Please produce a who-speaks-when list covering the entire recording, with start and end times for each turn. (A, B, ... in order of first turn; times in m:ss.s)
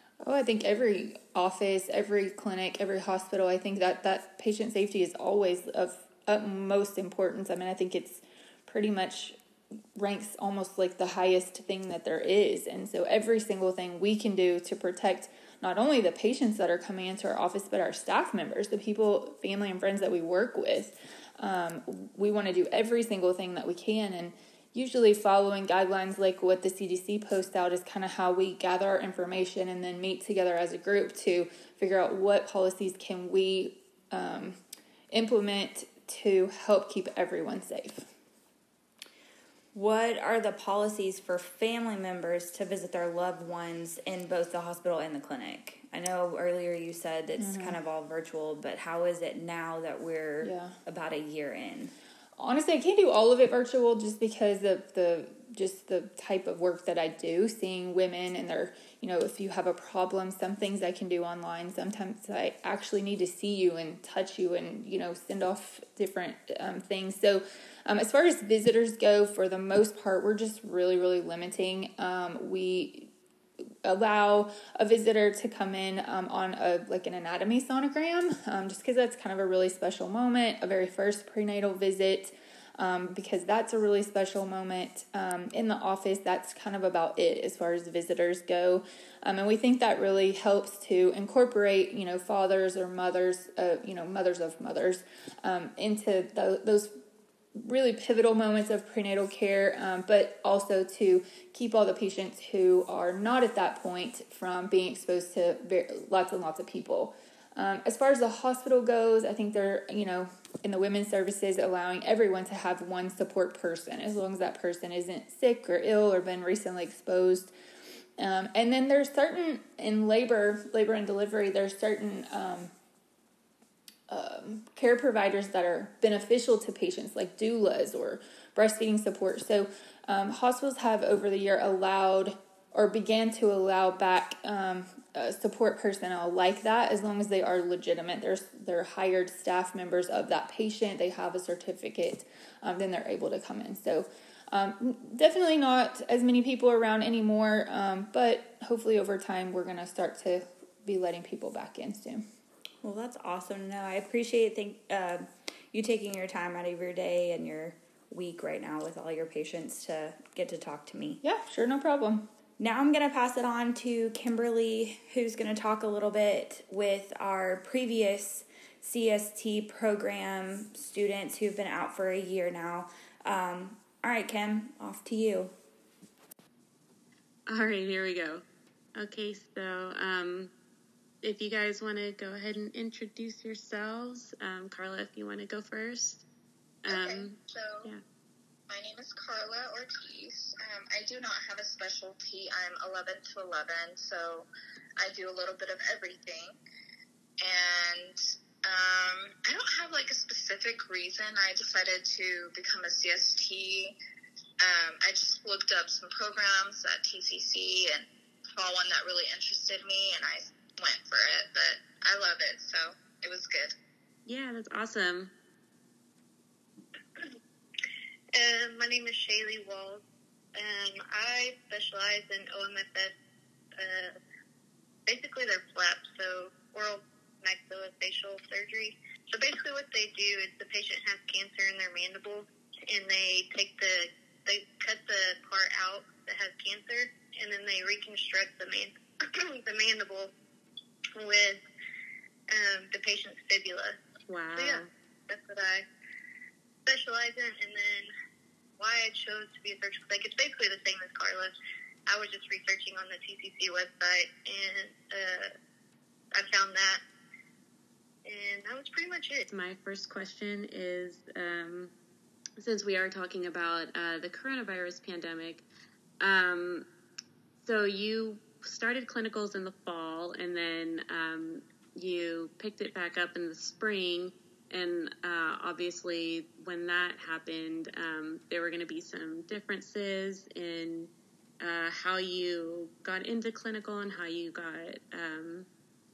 0:00.2-0:09.4 A
0:10.0-0:34.6 A
0:35.1-0:38.1 A
0:39.7-0:52.0 B
0:47.4-0:47.8 A
0:50.4-0:50.8 A
0:52.4-1:13.1 A
1:13.8-1:37.0 A
1:37.6-1:57.5 A
1:58.2-2:02.7 A
2:04.1-2:32.2 A
2:32.8-2:41.2 B
2:41.2-2:42.3 A
2:42.6-2:55.5 B
2:57.5-2:58.4 C
2:59.0-3:00.5 C
3:01.2-3:06.2 C
3:06.8-3:08.0 C
3:06.9-3:07.9 D
3:08.7-3:16.6 D
3:17.4-3:24.0 D
3:24.6-3:33.7 D
3:34.3-3:35.3 C
3:38.3-3:40.0 E
3:40.6-3:43.1 E
3:43.8-3:44.1 E
3:45.1-4:00.3 E
4:01.2-4:01.6 E
4:02.5-4:04.0 E
4:04.3-4:04.9 C
4:04.5-4:05.9 E
4:06.9-4:08.1 E
4:08.8-4:11.5 E
4:12.1-4:15.5 E
4:16.3-4:17.0 E
4:18.2-4:19.4 E
4:19.5-4:21.9 C
4:22.6-4:25.6 C
4:26.2-4:26.9 C
4:27.6-4:45.7 C